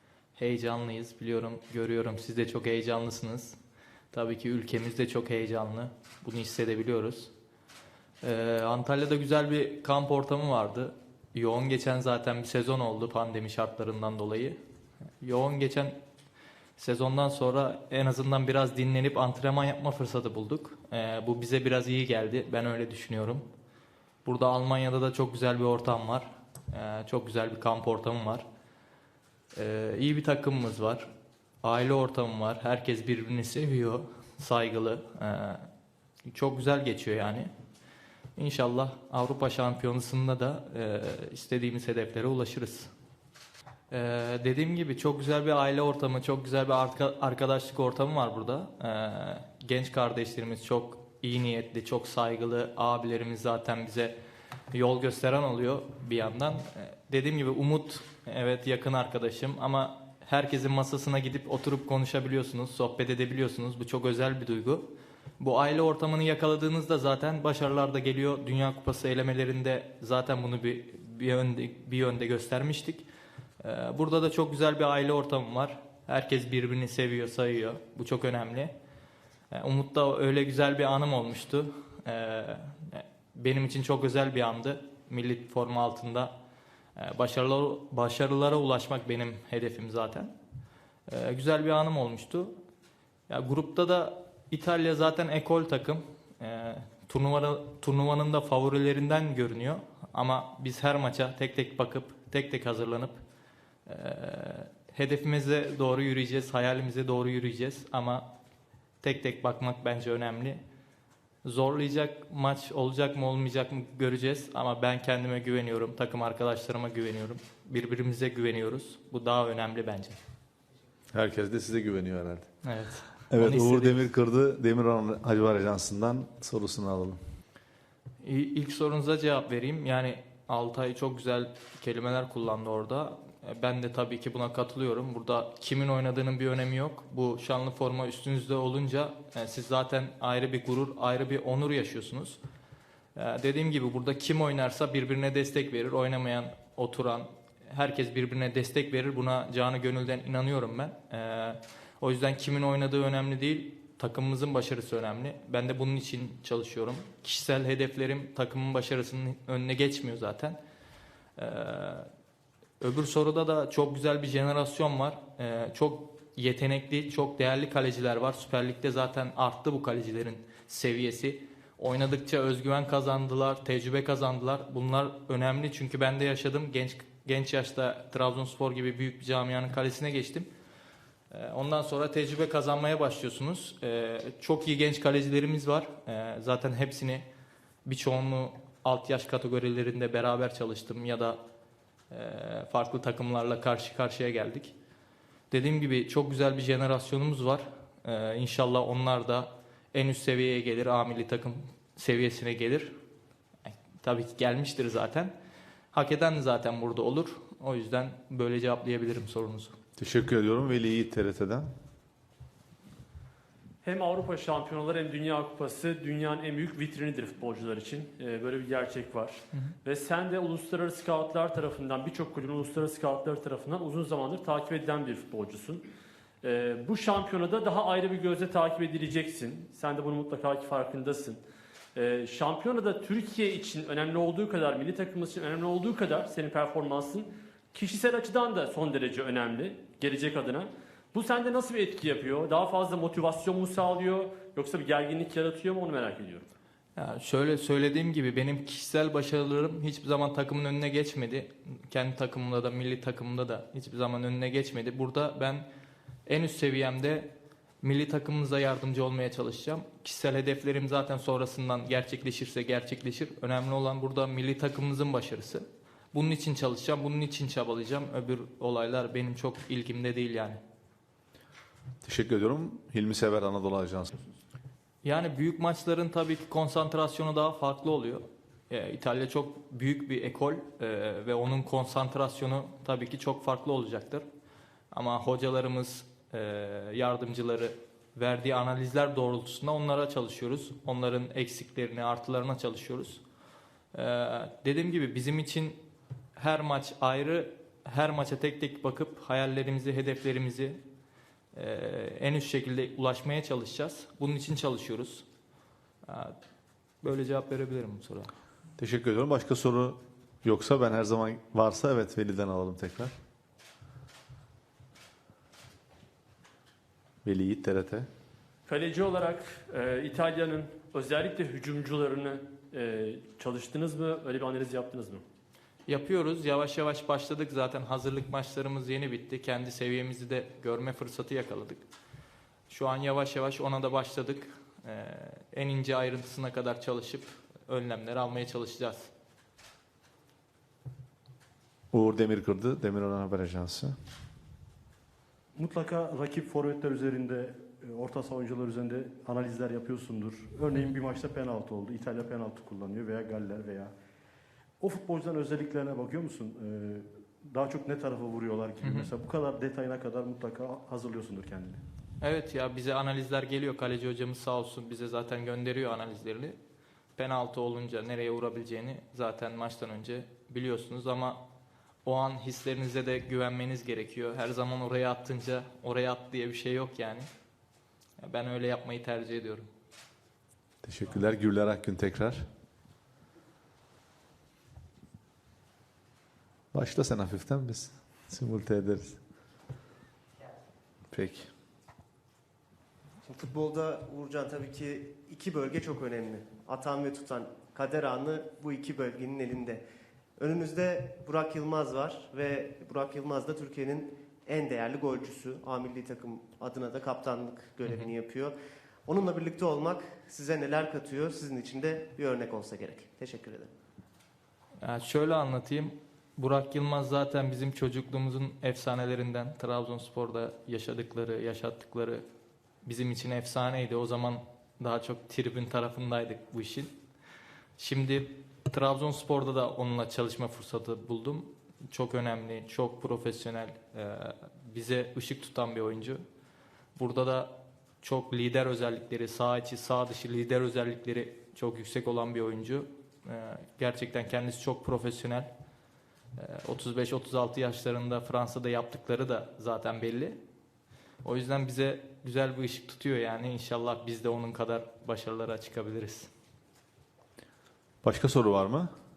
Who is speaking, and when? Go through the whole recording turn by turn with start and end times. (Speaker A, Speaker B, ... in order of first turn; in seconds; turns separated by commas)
Speaker A: 0.4-3.6, Speaker A: 4.1-7.3, Speaker A: 8.2-14.6, Speaker A: 15.2-16.0, Speaker A: 16.8-23.4, Speaker A: 24.2-28.4, Speaker A: 29.5-31.1, Speaker A: 31.6-35.7, Speaker A: 36.3-37.5, Speaker A: 38.4-42.9, Speaker A: 43.9-54.1, Speaker A: 54.7-64.9, Speaker A: 65.4-73.0, Speaker A: 73.6-78.7, Speaker A: 79.5-86.3, Speaker A: 87.0-90.3, Speaker A: 91.1-92.5, Speaker A: 93.3-103.2, Speaker A: 103.9-108.3, Speaker A: 109.0-110.6, Speaker A: 111.4-120.2, Speaker B: 121.1-122.5, Speaker A: 122.6-124.1, Speaker B: 123.3-127.2, Speaker A: 128.2-142.4, Speaker A: 143.2-160.6, Speaker A: 161.4-162.1, Speaker A: 162.8-180.5, Speaker A: 181.3-187.3, Speaker A: 187.8-191.4, Speaker A: 192.1-194.7, Speaker A: 195.5-202.9, Speaker A: 203.7-205.3, Speaker A: 205.9-209.8, Speaker B: 210.0-211.7, Speaker C: 213.8-225.8, Speaker C: 226.4-231.4, Speaker C: 231.9-246.5, Speaker A: 247.0-255.7, Speaker A: 256.3-257.3, Speaker A: 257.8-270.6, Speaker B: 272.0-274.1, Speaker A: 275.0-284.2, Speaker A: 284.9-293.2, Speaker A: 293.9-295.8, Speaker A: 296.4-300.8, Speaker A: 301.5-305.2, Speaker A: 306.1-306.4, Speaker A: 307.0-308.3, Speaker B: 308.8-313.1, Speaker B: 317.2-318.1, Speaker C: 318.7-325.2, Speaker A: 325.9-331.8, Speaker A: 332.7-339.1, Speaker B: 341.9-343.9, Speaker D: 345.6-353.9, Speaker D: 354.8-361.8, Speaker A: 358.8-359.1, Speaker A: 362.2-366.6, Speaker A: 367.2-371.4, Speaker A: 372.1-377.3, Speaker A: 378.2-379.7, Speaker B: 380.8-382.5, Speaker B: 386.7-389.2, Speaker B: 391.1-391.5, Speaker E: 393.2-399.8, Speaker E: 400.4-408.5, Speaker E: 409.1-413.7, Speaker A: 414.8-422.2, Speaker A: 422.9-426.9, Speaker A: 427.8-436.2, Speaker A: 437.0-445.5, Speaker A: 446.4-450.4, Speaker A: 451.2-456.3, Speaker B: 458.0-458.9